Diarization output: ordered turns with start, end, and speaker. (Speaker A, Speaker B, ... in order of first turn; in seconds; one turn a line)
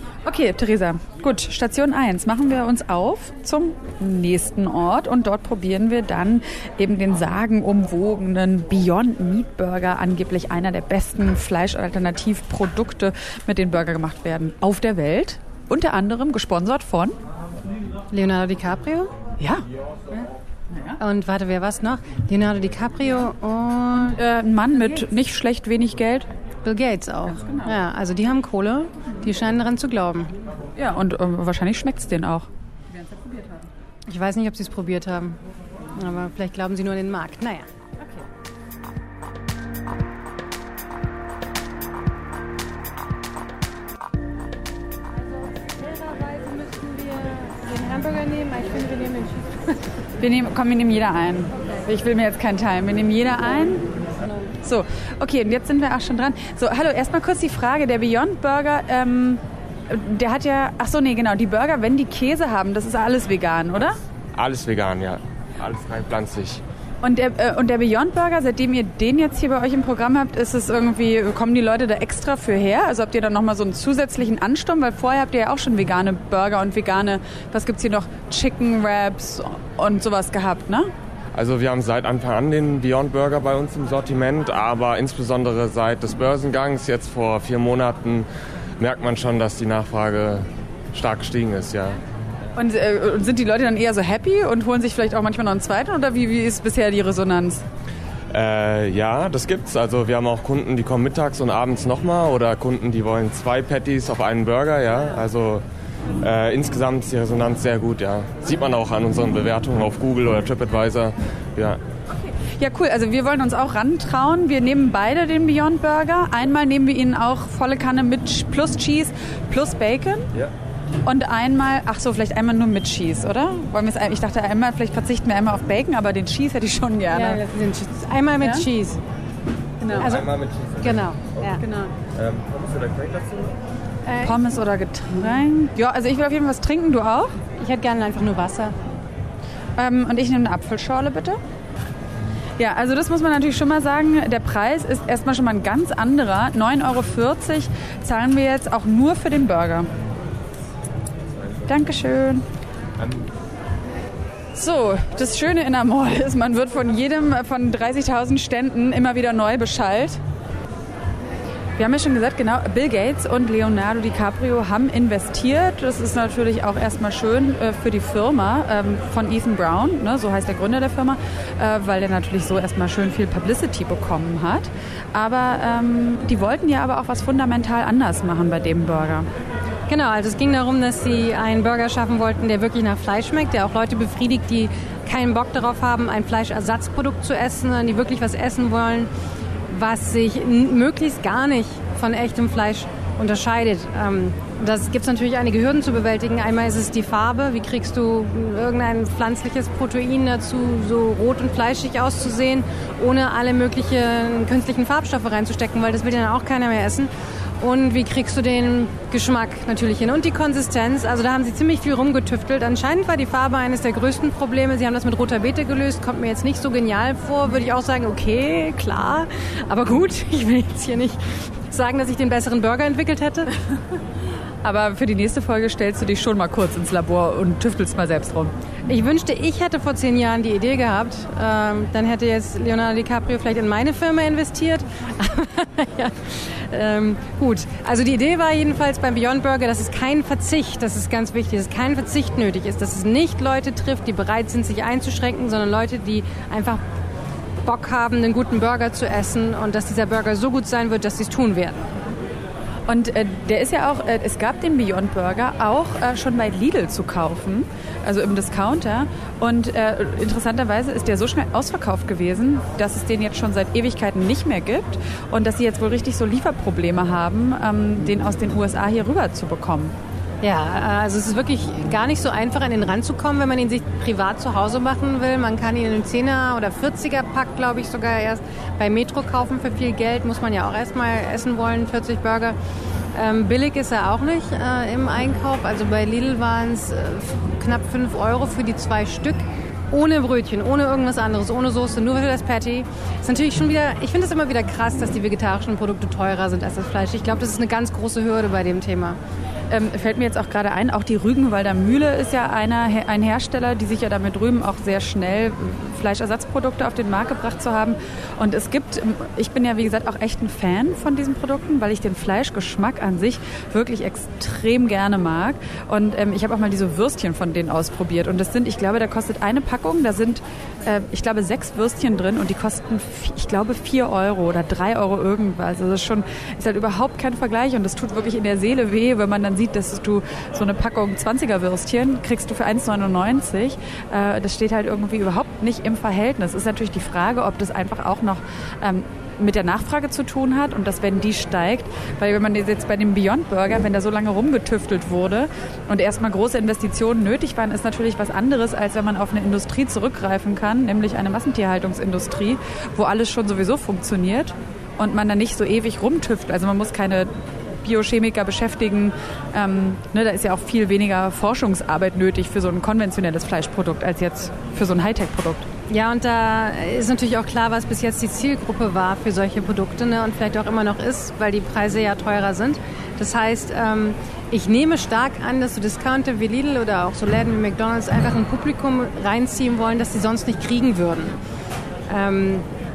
Speaker A: 0.2-17.2
Speaker B: 18.1-19.1
Speaker A: 19.4-19.6
Speaker A: 20.7-21.0
Speaker B: 21.0-24.2
Speaker A: 24.1-26.3
Speaker B: 26.6-30.3
Speaker A: 27.3-27.8
Speaker A: 30.8-33.7
Speaker B: 34.1-35.4
Speaker B: 35.9-37.7
Speaker B: 45.5-49.8
Speaker A: 50.2-53.9
Speaker A: 54.6-64.0
Speaker C: 64.4-66.6
Speaker A: 67.0-80.9
Speaker C: 81.3-88.3
Speaker C: 88.8-92.0
Speaker A: 92.6-97.7
Speaker C: 98.3-105.6
Speaker C: 106.2-111.8
Speaker A: 112.4-120.3
Speaker A: 121.0-127.4
Speaker B: 127.1-129.0
Speaker A: 128.4-128.7
Speaker A: 129.8-130.1
Speaker C: 130.0-131.6
Speaker B: 130.0-130.3
Speaker B: 130.8-131.6
Speaker A: 131.6-131.9
Speaker C: 132.1-133.5
Speaker B: 134.1-134.4
Speaker A: 134.2-137.4
Speaker B: 137.6-138.8
Speaker A: 139.8-141.4
Speaker A: 142.6-149.9
Speaker A: 151.7-152.5
Speaker A: 154.6-160.2
Speaker A: 161.8-179.3
Speaker B: 179.9-189.1
Speaker B: 189.7-223.5
Speaker A: 224.6-228.6
Speaker B: 228.9-246.8
Speaker B: 247.6-251.9
Speaker A: 252.9-269.9
Speaker B: 270.4-282.6
Speaker B: 283.1-299.2
Speaker A: 299.7-365.7
Speaker B: 365.9-381.4
Speaker B: 382.1-382.7